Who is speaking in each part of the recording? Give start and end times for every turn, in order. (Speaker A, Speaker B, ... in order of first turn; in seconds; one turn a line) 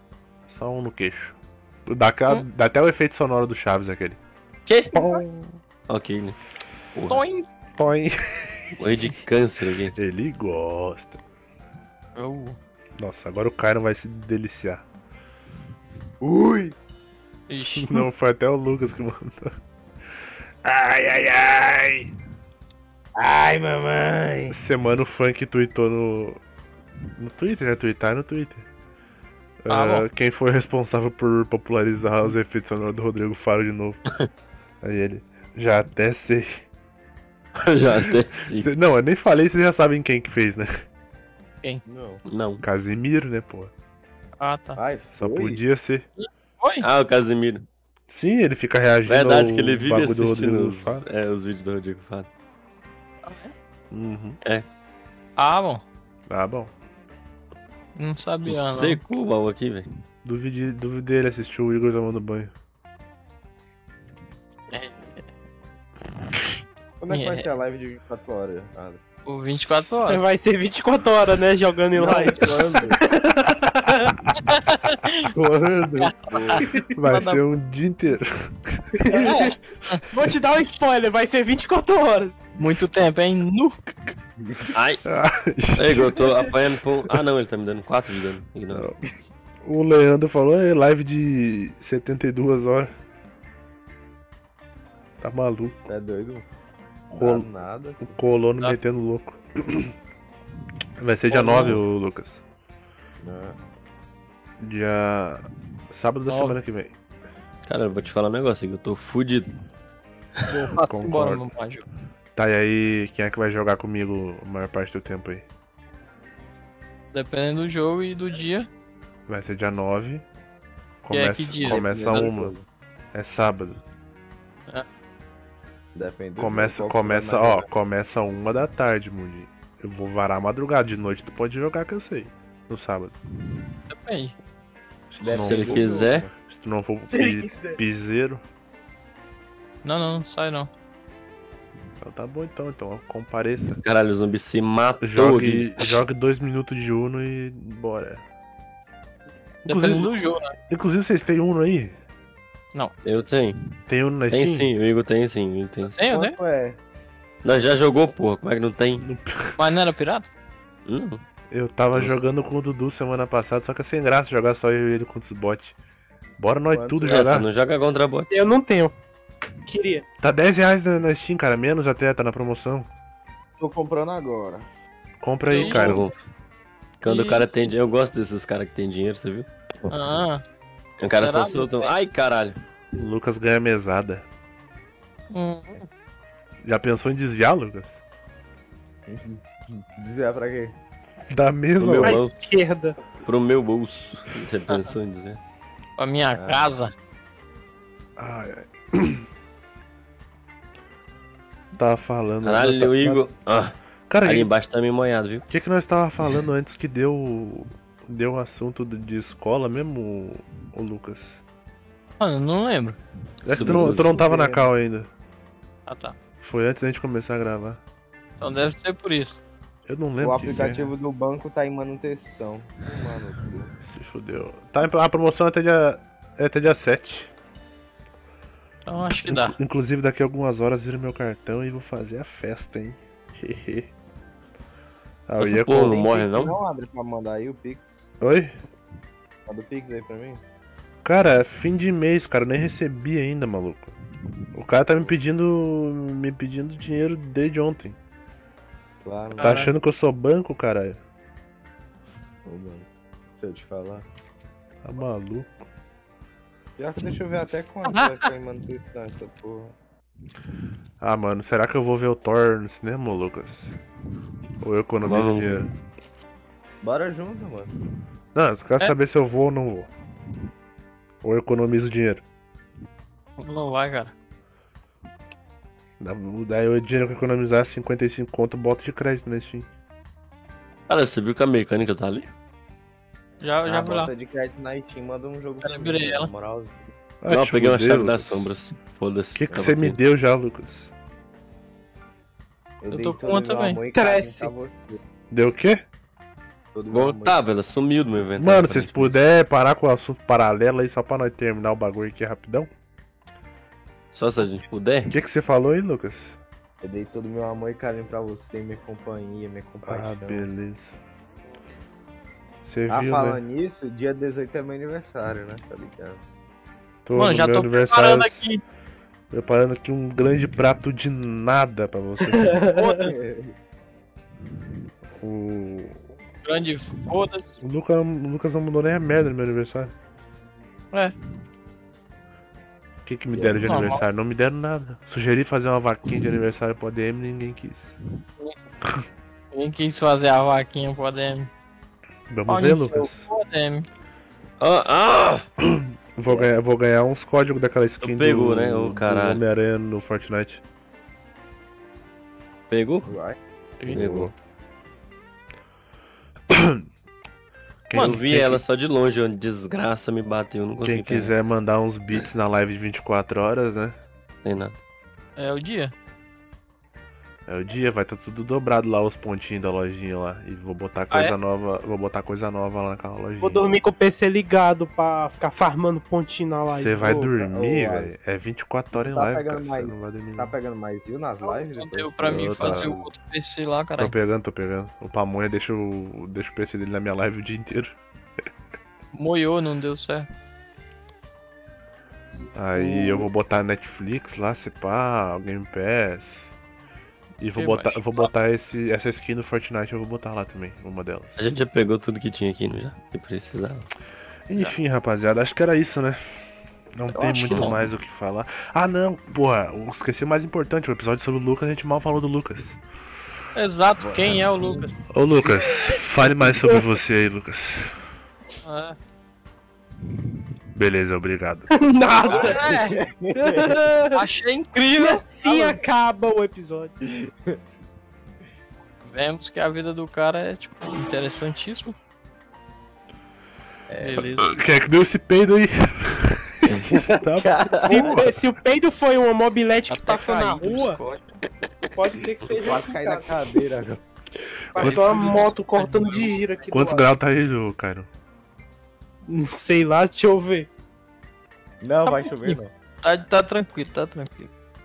Speaker A: 0.5-4.2
Speaker B: 4.7-5.0
Speaker A: 4.9-5.4
Speaker C: 5.0-5.2
Speaker B: 5.9-6.4
Speaker B: 7.0-7.2
Speaker C: 7.1-7.5
Speaker A: 7.8-8.8
Speaker B: 8.8-10.0
Speaker A: 9.9-11.2
Speaker C: 12.2-12.6
Speaker A: 13.0-14.8
Speaker D: 16.2-16.8
Speaker C: 17.5-18.0
Speaker A: 17.8-19.6
Speaker A: 20.6-22.1
Speaker D: 23.2-24.6
Speaker A: 24.5-26.4
Speaker A: 27.2-28.7
Speaker A: 29.6-34.0
Speaker C: 29.7-30.1
Speaker A: 34.8-36.6
Speaker B: 37.6-38.7
Speaker A: 38.5-40.8
Speaker D: 41.9-42.2
Speaker B: 42.3-42.6
Speaker A: 42.6-43.7
Speaker C: 44.4-44.8
Speaker D: 44.8-45.6
Speaker A: 45.2-46.1
Speaker C: 46.2-46.9
Speaker B: 46.8-47.6
Speaker A: 48.1-51.0
Speaker B: 49.1-52.3
Speaker C: 53.2-53.5
Speaker A: 53.9-54.4
Speaker C: 55.4-55.9
Speaker A: 56.3-56.7
Speaker C: 58.0-59.0
Speaker B: 58.4-59.9
Speaker A: 60.2-62.5
Speaker C: 64.7-65.2
Speaker D: 67.0-69.0
Speaker C: 67.1-67.5
Speaker C: 69.3-70.2
Speaker A: 69.6-70.0
Speaker E: 70.1-74.2
Speaker D: 71.9-73.0
Speaker C: 74.3-75.3
Speaker D: 75.3-76.9
Speaker A: 75.5-75.8
Speaker C: 76.0-77.4
Speaker B: 76.3-76.7
Speaker A: 76.9-79.0
Speaker D: 79.0-79.5
Speaker E: 79.1-79.6
Speaker E: 80.1-82.4
Speaker C: 82.6-83.8
Speaker D: 84.4-84.7
Speaker B: 84.7-85.0
Speaker A: 85.0-86.3
Speaker B: 85.8-88.9
Speaker A: 88.7-89.0
Speaker A: 89.6-92.9
Speaker A: 95.2-95.8
Speaker D: 95.9-96.5
Speaker D: 97.1-98.1
Speaker A: 97.1-97.5
Speaker A: 98.0-99.9
Speaker A: 101.0-102.4
Speaker C: 101.3-101.8
Speaker D: 103.2-103.6
Speaker A: 104.6-107.0
Speaker C: 106.3-106.6
Speaker B: 107.7-109.5
Speaker C: 110.5-111.8
Speaker A: 110.9-111.5
Speaker A: 112.4-115.5
Speaker C: 117.1-118.7
Speaker A: 119.3-120.2
Speaker A: 121.0-122.5
Speaker C: 121.1-122.0
Speaker D: 121.7-122.6
Speaker A: 123.1-123.8
Speaker D: 126.0-127.7
Speaker A: 126.4-133.1
Speaker C: 133.9-134.3
Speaker A: 135.1-138.4
Speaker D: 135.2-136.3
Speaker B: 135.3-136.3
Speaker E: 137.1-137.8
Speaker C: 139.8-140.7
Speaker A: 142.0-143.8
Speaker B: 143.8-146.0
Speaker A: 145.0-148.2
Speaker A: 149.7-150.1
Speaker C: 149.7-150.6
Speaker A: 150.7-152.0
Speaker B: 153.1-153.6
Speaker A: 153.9-154.7
Speaker B: 154.3-156.0
Speaker C: 156.0-156.4
Speaker D: 156.0-156.8
Speaker B: 157.4-159.1
Speaker A: 159.0-159.6
Speaker C: 159.6-160.3
Speaker B: 160.9-161.2
Speaker A: 161.5-165.8
Speaker A: 166.4-167.5
Speaker D: 166.7-167.2
Speaker B: 167.1-168.4
Speaker E: 168.3-168.9
Speaker E: 169.7-170.0
Speaker A: 170.2-172.9
Speaker D: 173.6-174.7
Speaker A: 175.2-176.1
Speaker C: 175.5-176.0
Speaker B: 175.6-176.1
Speaker B: 177.0-180.2
Speaker C: 177.1-177.5
Speaker C: 179.9-180.4
Speaker B: 181.0-182.6
Speaker C: 181.2-181.9
Speaker A: 182.9-184.2
Speaker C: 185.3-185.9
Speaker A: 186.6-188.0
Speaker D: 189.1-190.8
Speaker A: 191.3-192.2
Speaker B: 191.8-192.3
Speaker E: 192.0-193.0
Speaker B: 193.2-195.4
Speaker C: 196.0-196.9
Speaker D: 196.4-196.7
Speaker A: 198.2-199.2
Speaker A: 201.8-203.2
Speaker B: 202.4-205.5
Speaker A: 204.1-204.5
Speaker A: 205.5-211.4
Speaker C: 212.2-213.0
Speaker A: 213.4-215.1
Speaker B: 213.5-214.2
Speaker D: 213.5-214.7
Speaker C: 215.9-216.2
Speaker A: 216.4-217.8
Speaker C: 218.4-219.4
Speaker A: 219.9-220.9
Speaker D: 220.2-223.7
Speaker A: 223.9-227.3
Speaker C: 228.9-229.6
Speaker A: 229.3-233.9
Speaker A: 235.3-236.0
Speaker B: 235.4-236.6
Speaker D: 235.9-238.0
Speaker A: 238.2-238.5
Speaker D: 239.5-240.4
Speaker A: 241.0-243.9
Speaker A: 244.5-248.0
Speaker D: 249.0-249.7
Speaker C: 249.4-249.7
Speaker A: 249.4-251.0
Speaker D: 252.5-252.9
Speaker D: 253.4-254.1
Speaker A: 254.8-255.6
Speaker D: 256.8-259.8
Speaker C: 257.9-258.2
Speaker A: 261.0-263.7
Speaker A: 264.6-265.7
Speaker B: 265.0-265.7
Speaker D: 266.8-267.7
Speaker A: 268.4-269.9
Speaker A: 271.2-272.2
Speaker C: 273.4-274.1
Speaker A: 276.0-279.7
Speaker B: 280.9-282.3
Speaker C: 283.4-284.1
Speaker D: 283.6-286.9
Speaker C: 285.6-286.3
Speaker A: 287.2-288.5
Speaker B: 287.3-290.0
Speaker A: 289.4-290.9
Speaker D: 292.8-295.0
Speaker C: 292.9-293.8
Speaker E: 293.9-294.5
Speaker A: 295.3-295.8
Speaker D: 296.7-297.4
Speaker B: 296.9-299.1
Speaker A: 298.4-302.7
Speaker B: 304.1-305.1
Speaker A: 305.1-306.4
Speaker D: 306.8-310.5
Speaker A: 309.9-310.9
Speaker A: 312.6-313.4
Speaker D: 312.9-316.2
Speaker A: 317.0-318.5
Speaker C: 317.1-318.6
Speaker A: 319.3-322.6
Speaker E: 322.3-323.1
Speaker D: 322.8-323.5
Speaker A: 325.2-326.0
Speaker C: 326.4-327.6
Speaker A: 327.6-329.9
Speaker A: 333.0-337.9
Speaker D: 333.3-333.6
Speaker C: 333.6-334.0
Speaker C: 339.5-341.5
Speaker A: 342.3-343.2
Speaker C: 342.5-343.9
Speaker B: 344.6-345.4
Speaker A: 345.6-350.6
Speaker D: 346.2-346.5
Speaker B: 348.0-349.4
Speaker B: 352.7-353.1
Speaker D: 353.1-353.4
Speaker A: 353.8-354.3
Speaker B: 353.9-354.3
Speaker A: 356.5-356.8
Speaker A: 357.9-358.6
Speaker C: 357.9-358.2
Speaker B: 357.9-361.3
Speaker A: 360.8-364.0
Speaker B: 364.4-364.8
Speaker C: 365.4-365.9
Speaker A: 367.5-373.6
Speaker E: 373.4-377.0
Speaker A: 376.7-380.5
Speaker D: 377.0-378.1
Speaker D: 378.9-383.1
Speaker C: 381.4-384.1
Speaker A: 382.2-382.9
Speaker A: 384.0-388.0
Speaker C: 389.1-390.3
Speaker A: 392.5-396.5
Speaker C: 392.8-393.2
Speaker A: 397.4-401.4
Speaker C: 397.6-398.3
Speaker B: 401.4-403.9
Speaker A: 404.5-406.2
Speaker A: 406.9-412.8
Speaker C: 407.1-407.8
Speaker B: 407.5-407.7
Speaker C: 413.5-415.0
Speaker D: 414.0-414.9
Speaker A: 415.1-417.9
Speaker C: 418.6-419.0
Speaker A: 420.8-421.7
Speaker E: 421.7-424.3
Speaker C: 422.2-423.0
Speaker D: 422.2-423.8
Speaker C: 424.1-425.8
Speaker E: 425.0-426.9
Speaker D: 427.0-427.6
Speaker C: 429.0-432.0
Speaker D: 433.9-434.3
Speaker C: 434.0-434.6
Speaker A: 434.4-438.4
Speaker D: 436.9-438.3
Speaker E: 437.7-441.0
Speaker C: 439.9-441.2
Speaker E: 441.9-443.3
Speaker D: 442.5-444.0
Speaker A: 444.7-445.3
Speaker E: 444.7-447.1
Speaker C: 444.8-446.4
Speaker A: 446.7-448.1
Speaker E: 449.3-450.7
Speaker D: 451.8-452.7
Speaker C: 452.1-454.5